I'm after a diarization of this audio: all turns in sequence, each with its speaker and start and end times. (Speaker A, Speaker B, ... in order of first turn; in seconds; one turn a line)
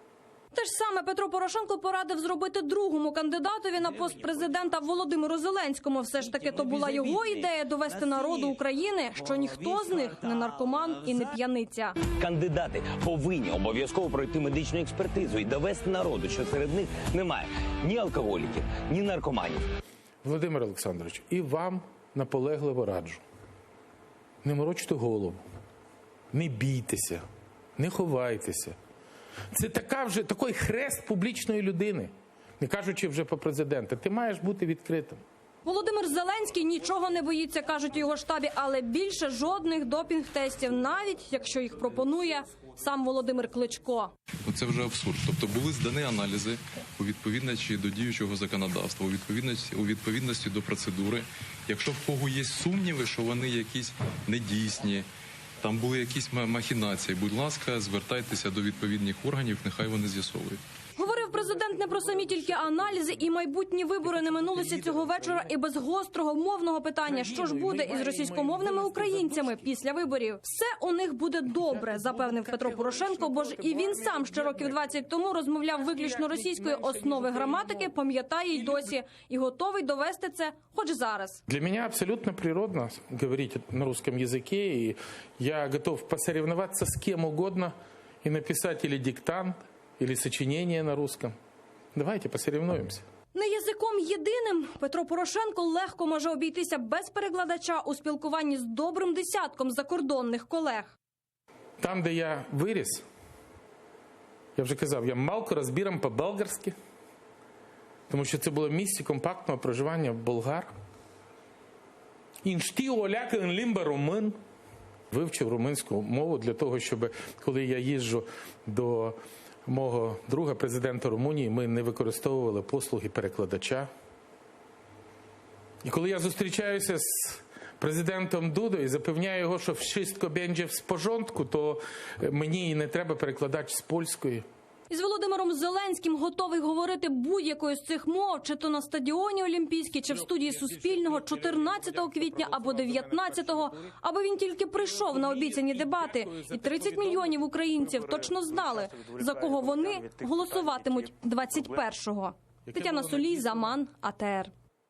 Speaker A: 0.5-12.0
Speaker B: 6.6-7.5
Speaker B: 8.1-8.4
Speaker B: 12.1-19.6
Speaker C: 20.2-23.2
Speaker C: 24.4-25.4
Speaker C: 26.3-27.2
Speaker C: 27.8-28.8
Speaker C: 29.5-35.2
Speaker A: 35.6-44.1
Speaker D: 44.5-55.1
Speaker D: 55.6-60.6
Speaker A: 61.0-81.4
Speaker C: 61.2-63.1
Speaker C: 64.0-65.5
Speaker C: 67.0-69.7
Speaker C: 71.5-75.0
Speaker C: 75.8-77.9
Speaker C: 78.5-78.9
Speaker C: 81.5-91.3
Speaker C: 92.0-93.0
Speaker A: 93.3-100.9
Speaker C: 101.8-103.0
Speaker C: 104.6-106.7
Speaker C: 108.1-110.7
Speaker C: 112.4-114.3
Speaker C: 115.1-123.9
Speaker C: 125.8-134.4
Speaker A: 134.9-154.5
Speaker C: 140.4-143.9
Speaker C: 144.9-147.2
Speaker C: 152.7-153.7